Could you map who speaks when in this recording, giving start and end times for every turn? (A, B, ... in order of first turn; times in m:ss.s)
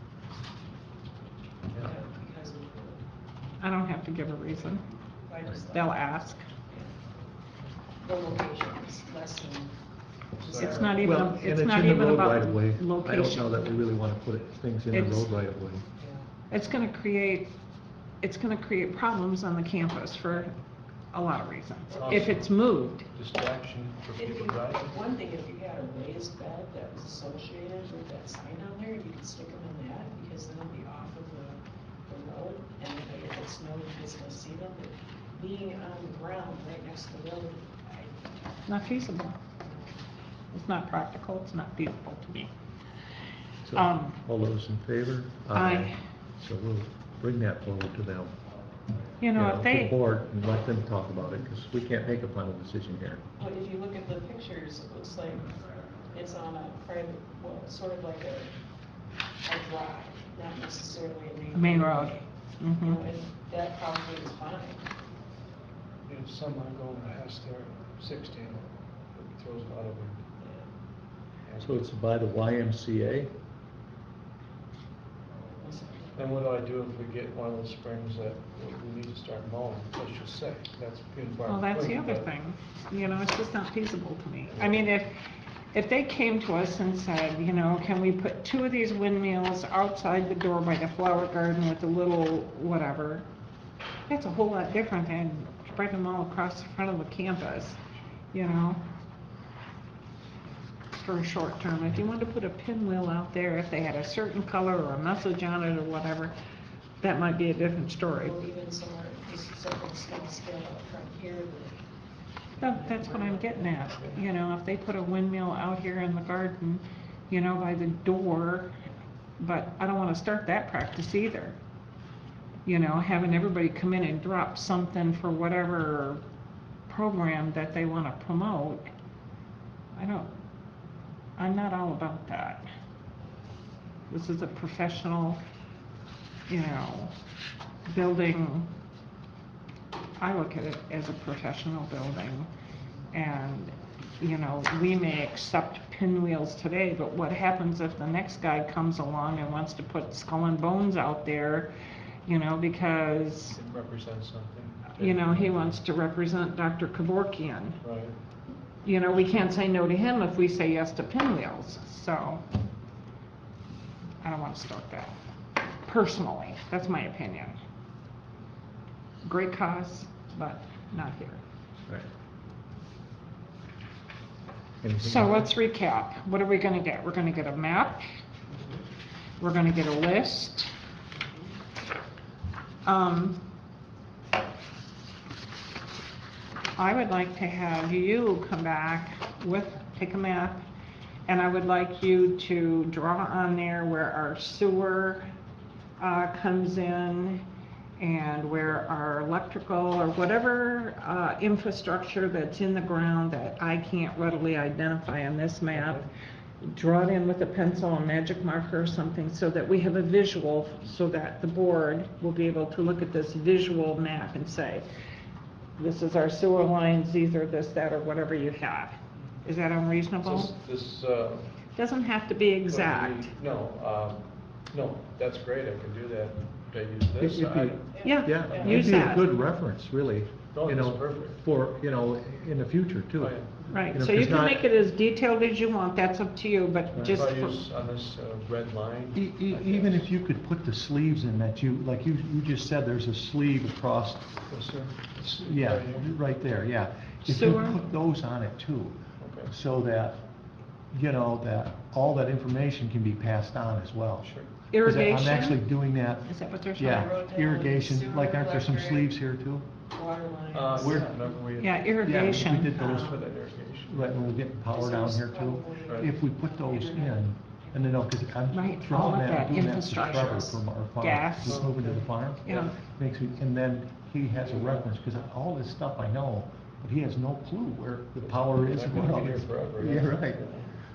0:01.7-0:03.0 A
0:03.6-0:04.8 B
0:05.3-0:05.9 A
0:05.7-0:06.5 B
0:06.7-0:07.0 A
0:08.0-0:09.8 A
0:10.4-0:11.1 A
0:10.4-0:11.0 C
0:10.6-0:13.8 B
0:10.9-0:15.8 D
0:14.9-0:15.3 B
0:16.0-0:16.3 A
0:16.5-0:17.5 B
0:18.2-0:20.6 B
0:21.1-0:23.1 B
0:21.9-0:22.5 C
0:23.1-0:25.0 C
0:24.2-0:38.2 A
0:38.7-0:39.4 B
0:39.6-0:40.0 A
0:40.5-0:42.5 B
0:43.6-0:48.3 D
0:43.7-0:44.2 B
0:45.5-0:46.0 B
0:49.2-0:50.0 B
0:49.4-0:53.2 D
0:53.4-0:55.5 A
0:56.1-0:58.5 A
0:59.4-1:02.3 A
1:01.5-1:03.0 B
1:02.8-1:04.8 A
1:06.1-1:10.2 C
1:10.4-1:10.7 A
1:11.4-1:11.8 C
1:11.6-1:13.3 D
1:15.6-1:16.2 A
1:16.2-1:22.3 C
1:21.5-1:33.3 B
1:24.5-1:24.9 C
1:34.1-1:37.8 B
1:38.3-1:38.8 B
1:41.0-1:46.3 B
1:47.0-1:48.4 B
1:48.1-1:51.8 A
1:52.6-1:54.2 A
1:52.6-1:58.8 B
1:59.4-2:01.6 B
2:02.6-2:06.2 B
2:06.9-2:08.9 B
2:09.9-2:10.3 B
2:11.4-2:12.7 B
2:14.1-2:15.4 B
2:16.5-2:17.1 B
2:17.9-2:18.7 B
2:20.2-2:22.5 B
2:23.1-2:31.7 B
2:32.3-2:33.6 B
2:33.5-2:35.8 C
2:35.0-2:37.8 B
2:37.8-2:38.1 C
2:38.8-2:42.4 B
2:44.2-2:45.2 B
2:45.8-2:47.6 B
2:49.2-2:51.4 B
2:54.8-2:55.5 D
2:55.0-2:58.1 B
2:59.4-3:00.7 B
3:02.8-3:03.4 B
3:06.8-3:10.6 B
3:11.3-3:15.3 B
3:16.0-3:17.4 B
3:18.0-3:26.1 B
3:25.7-3:26.1 C
3:26.6-3:34.8 B
3:35.8-3:40.5 B
3:40.2-3:41.5 C
3:41.8-3:43.3 B
3:42.7-3:47.9 C
3:47.2-3:53.4 D
3:47.9-3:49.0 A
3:48.0-3:49.3 B
3:48.5-3:48.8 C
3:50.5-3:51.4 C
3:53.2-3:53.6 C
3:53.7-3:57.6 B
3:53.9-3:54.7 D
3:57.0-3:57.2 D
3:57.0-4:00.1 C
3:59.2-4:04.3 D
4:04.5-4:06.1 C
4:05.2-4:10.2 D
4:07.3-4:07.8 B
4:09.2-4:09.5 C
4:10.9-4:14.3 D
4:14.2-4:14.5 C
4:14.7-4:15.6 B
4:14.8-4:19.7 D
4:16.2-4:17.1 B
4:16.9-4:19.1 A
4:19.9-4:21.3 A
4:20.5-4:24.4 C
4:20.8-4:21.0 D
4:21.6-4:23.0 B
4:22.0-4:23.2 D
4:23.9-4:40.4 D
4:24.7-4:27.9 A
4:25.9-4:26.1 C
4:28.5-4:31.7 B
4:29.9-4:30.4 A
4:31.4-4:32.0 C
4:32.4-4:32.7 B
4:34.4-4:34.9 C
4:38.2-4:40.7 C